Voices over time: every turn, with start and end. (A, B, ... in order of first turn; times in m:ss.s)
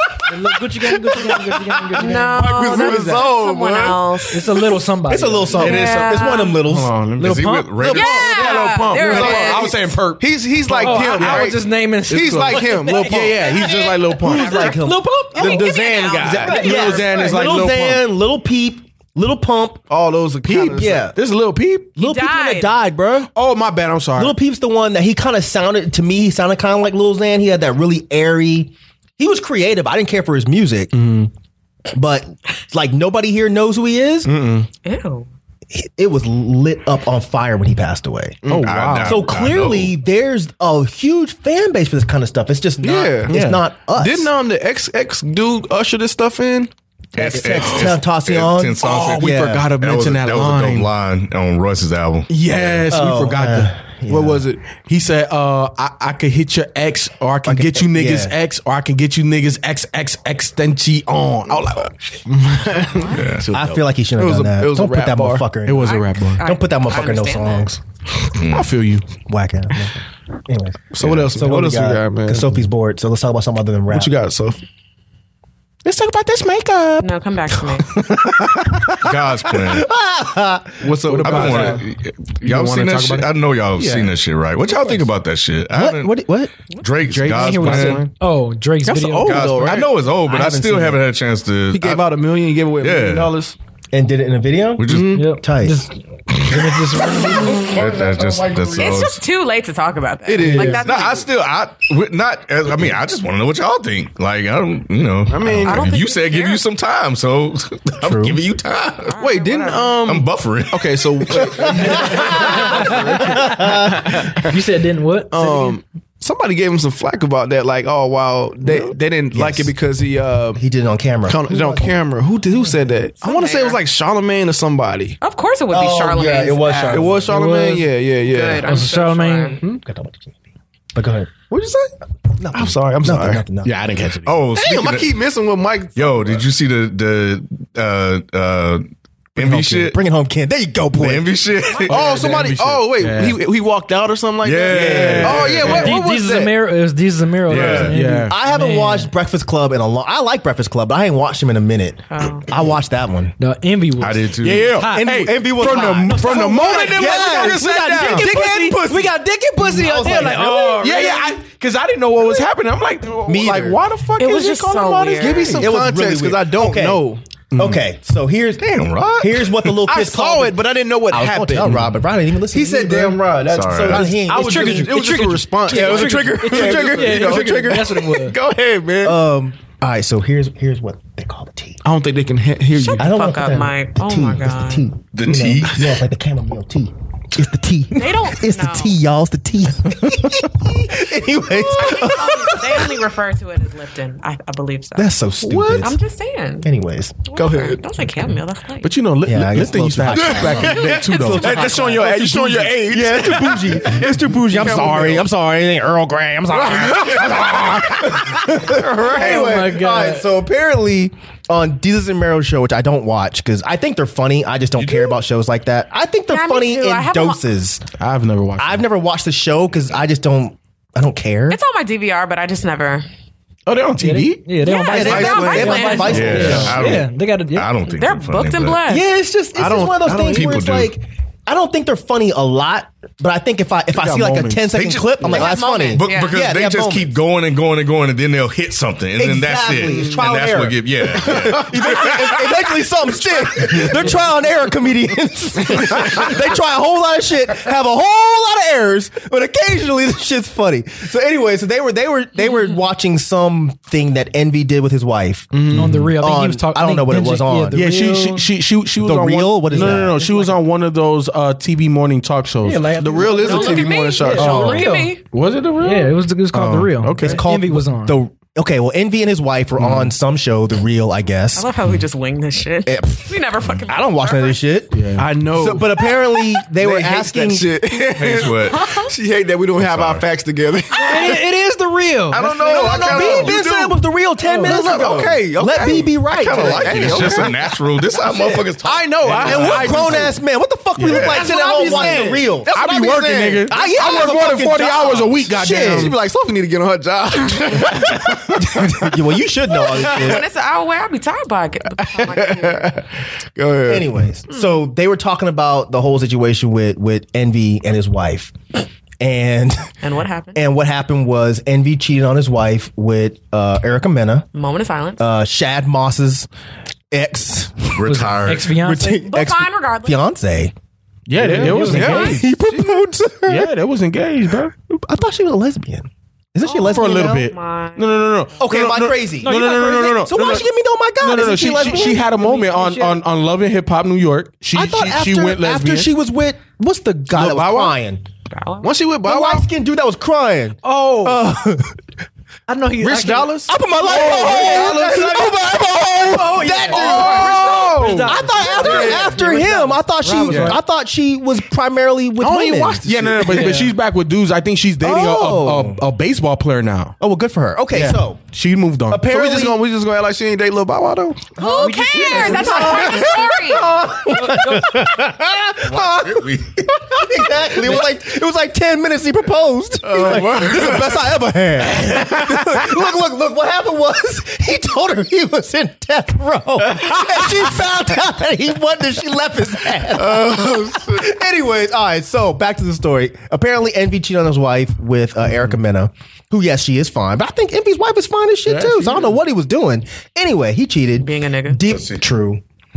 0:00.3-0:02.5 A
0:02.0-0:04.6 B
0:02.4-0:04.2 C
0:04.3-0:05.8 A
0:05.1-0:07.0 D
0:05.5-0:10.3 E
0:05.6-0:06.6 B
0:07.2-0:07.9 A
0:07.2-0:08.3 F
0:07.9-0:09.9 B
0:07.9-0:14.1 C
0:09.0-0:09.6 D
0:10.7-0:13.8 A
0:10.8-0:11.5 E
0:12.1-0:14.7 E
0:13.4-0:17.0 B
0:14.2-0:15.5 D
0:14.4-0:15.7 A
0:15.4-0:16.9 C
0:16.2-0:18.0 E
0:16.3-0:17.5 A
0:16.5-0:19.8 D
0:19.9-0:21.1 C
0:20.4-0:22.0 E
0:20.5-0:21.2 D
0:22.0-0:23.3 D
0:22.0-0:22.8 B
0:23.3-0:24.3 E
0:24.2-0:31.0 D
0:30.9-0:31.3 E
0:31.9-0:34.3 D
0:34.3-0:34.6 E
0:34.8-0:35.3 B
0:35.7-0:38.4 D
0:38.4-0:38.9 C
0:38.5-0:39.3 E
0:38.6-0:39.9 F
0:39.0-0:44.3 D
0:42.8-0:46.7 C
0:43.3-0:43.6 E
0:47.1-0:53.0 F
0:47.2-0:49.7 D
0:48.8-0:50.9 E
0:52.3-0:53.9 E
0:52.9-0:54.4 D
0:54.1-0:54.6 C
0:54.7-1:01.9 E
0:57.4-0:58.3 D
1:02.2-1:05.5 C
1:02.9-1:03.2 B
1:03.1-1:03.5 F
1:03.5-1:07.8 D
1:05.6-1:06.4 E
1:05.8-1:07.7 B
1:08.3-1:08.8 F
1:08.5-1:09.1 E
1:09.2-1:14.1 D
1:10.9-1:12.6 C
1:13.9-1:14.6 C
1:15.8-1:17.1 E
1:17.0-1:17.9 B
1:17.7-1:19.0 E
1:19.0-1:19.9 F
1:19.6-1:20.9 D
1:20.8-1:21.8 E
1:21.0-1:21.8 C
1:21.2-1:26.2 F
1:22.4-1:23.3 E
1:23.8-1:24.1 C
1:25.7-1:26.5 D
1:26.8-1:28.0 F
1:27.0-1:28.1 E
1:27.3-1:29.6 A
1:27.5-1:27.9 C
1:28.8-1:29.9 C
1:29.2-1:32.2 F
1:30.2-1:31.0 D
1:31.7-1:33.6 C
1:32.8-1:33.4 F
1:33.9-1:35.9 D
1:34.8-1:35.2 F
1:34.8-1:35.2 C
1:35.1-1:37.7 A
1:36.9-1:39.2 F
1:37.2-1:39.0 C
1:38.7-1:41.2 B
1:40.2-1:41.5 C
1:40.4-1:40.8 A
1:40.8-1:49.2 F
1:45.3-1:46.0 C
1:45.6-1:46.6 B
1:48.0-1:48.4 D
1:49.0-1:50.0 B
1:49.2-1:54.5 C
1:50.0-1:51.8 F
1:51.6-1:54.2 D
1:52.4-1:55.8 A
1:55.3-2:00.6 C
1:59.3-1:59.7 D
2:00.6-2:01.9 D
2:01.2-2:05.2 C
2:03.2-2:03.8 B
2:05.2-2:07.1 B
2:05.7-2:07.3 D
2:06.8-2:08.6 C
2:07.2-2:07.9 A
2:08.3-2:09.6 B
2:08.6-2:09.6 A
2:09.6-2:10.3 D
2:10.9-2:11.4 D
2:11.5-2:11.8 C
2:12.4-2:13.9 D
2:12.6-2:14.4 E
2:12.6-2:13.5 C
2:14.2-2:15.2 F
2:14.5-2:16.4 C
2:16.0-2:20.0 F
2:19.4-2:21.4 D
2:21.0-2:22.3 F
2:21.7-2:22.1 B
2:21.9-2:23.4 E
2:21.9-2:26.5 C
2:24.4-2:25.9 F
2:24.7-2:25.6 D
2:24.7-2:25.8 E
2:25.6-2:29.1 A
2:27.5-2:28.0 F
2:27.5-2:28.3 E
2:28.3-2:33.3 D
2:32.1-2:32.5 B
2:33.4-2:41.4 A
2:34.0-2:34.8 F
2:34.4-2:38.4 E
2:34.9-2:39.1 D
2:36.6-2:38.3 C
2:39.6-2:40.9 D
2:40.8-2:44.5 E
2:43.2-2:50.6 D
2:44.2-2:45.6 B
2:45.2-2:47.2 C
2:45.2-2:45.7 E
2:48.6-2:49.7 F
2:49.9-2:51.8 C
2:51.1-2:55.0 D
2:51.5-2:52.0 E
2:52.5-2:59.2 C
2:53.5-2:54.1 F
2:54.2-2:58.4 A
2:55.7-2:57.7 D
2:59.0-3:01.8 D
3:01.9-3:03.1 C
3:02.7-3:04.9 B
3:03.0-3:13.0 D
3:05.1-3:06.0 F
3:07.9-3:09.0 B
3:11.7-3:15.2 B
3:15.0-3:16.0 D
3:15.4-3:15.9 C
3:15.8-3:16.7 B
3:16.6-3:17.2 D
3:17.3-3:18.9 B
3:17.3-3:17.8 C
3:18.8-3:22.9 E
3:19.2-3:37.8 D
3:20.1-3:25.2 C
3:20.5-3:21.9 B
3:26.6-3:27.9 C
3:27.3-3:28.2 E
3:28.5-3:29.6 C
3:29.0-3:30.3 A
3:34.8-3:35.1 E
3:36.3-3:37.4 B
3:38.0-3:38.8 E
3:38.6-3:41.6 D
3:41.5-3:43.0 B
3:43.6-3:44.5 E
3:44.0-3:47.7 A
3:44.6-3:46.4 B
3:44.9-3:46.8 D
3:45.2-3:45.7 C
3:46.1-3:48.8 F
3:46.4-3:46.8 E
3:47.8-3:49.1 B
3:48.9-3:57.2 D
3:49.6-3:50.6 C
3:50.3-3:50.9 F
3:53.9-3:54.7 E
3:54.7-4:02.5 F
3:55.3-3:56.4 B
3:59.2-4:17.9 D
4:01.3-4:01.7 C
4:15.5-4:16.1 E
4:15.6-4:16.0 C
4:15.7-4:18.6 A
4:17.7-4:23.2 E
4:19.0-4:20.2 D
4:19.6-4:20.6 A
4:22.6-4:25.2 A
4:22.9-4:24.8 C
4:23.3-4:25.2 B
4:25.2-4:27.4 E
4:25.8-4:28.2 A
4:27.2-4:31.7 D
4:29.8-4:30.1 E
4:31.5-4:34.6 B
4:32.9-4:33.1 D
4:33.9-4:35.0 D
4:34.9-4:35.7 E
4:35.2-4:35.9 C
4:35.6-4:37.7 D
4:36.7-4:41.4 C
4:38.1-4:38.9 F
4:38.6-4:39.1 B
4:39.8-4:40.2 F
4:40.9-4:42.5 A
4:42.3-4:43.6 F
4:42.3-4:44.0 C
4:42.6-4:47.5 D
4:44.4-4:45.0 A
4:44.6-4:47.7 C
4:46.4-4:50.1 F
4:48.3-4:50.4 C
4:49.2-4:50.2 E
4:49.4-4:53.1 D
4:51.0-4:56.1 E
4:51.1-4:54.5 C
4:53.6-4:56.1 D
4:55.0-4:59.0 C
4:58.5-5:00.4 D
4:59.8-5:03.0 B
4:59.9-5:00.4 C
5:02.0-5:04.2 C
5:03.9-5:08.6 D
5:09.2-5:09.9 D
5:10.0-5:10.6 B
5:10.5-5:14.4 D
5:14.5-5:15.3 B
5:15.2-5:16.5 D
5:17.1-5:18.1 D
5:17.9-5:18.7 F
5:18.0-5:19.3 A
5:18.7-5:20.7 D
5:19.2-5:20.2 B
5:21.3-5:22.4 E
5:21.3-5:22.4 A
5:21.6-5:23.7 D
5:21.6-5:23.0 C
5:23.4-5:24.7 E
5:24.9-5:27.5 D
5:26.6-5:28.3 B
5:26.9-5:30.6 E
5:28.6-5:32.3 D
5:29.4-5:30.3 A
5:31.2-5:36.1 E
5:32.0-5:33.2 A
5:34.7-5:38.2 D
5:37.4-5:37.7 C
5:37.4-5:37.8 E
5:38.5-5:38.9 B
5:38.8-5:39.6 C
5:39.2-5:42.0 D
5:40.8-5:41.4 A
5:42.7-5:45.4 A
5:43.0-5:45.4 C
5:43.7-5:53.0 D
5:44.1-5:45.5 E
5:46.1-5:50.8 A
5:46.8-5:49.3 C
5:46.9-5:48.3 E
5:50.5-5:50.7 E
5:52.4-5:53.9 C
5:53.0-5:57.2 E
5:55.0-5:56.0 D
5:57.2-5:58.5 D
5:58.0-5:59.3 E
5:59.1-5:59.8 D
5:59.2-6:01.6 C
6:01.6-6:04.0 B
6:01.6-6:32.6 D
6:01.6-6:03.3 A
6:04.1-6:05.2 A
6:05.8-6:07.8 F
6:10.1-6:10.8 C
6:28.8-6:29.0 E
6:31.2-6:31.8 B
6:31.9-6:32.2 F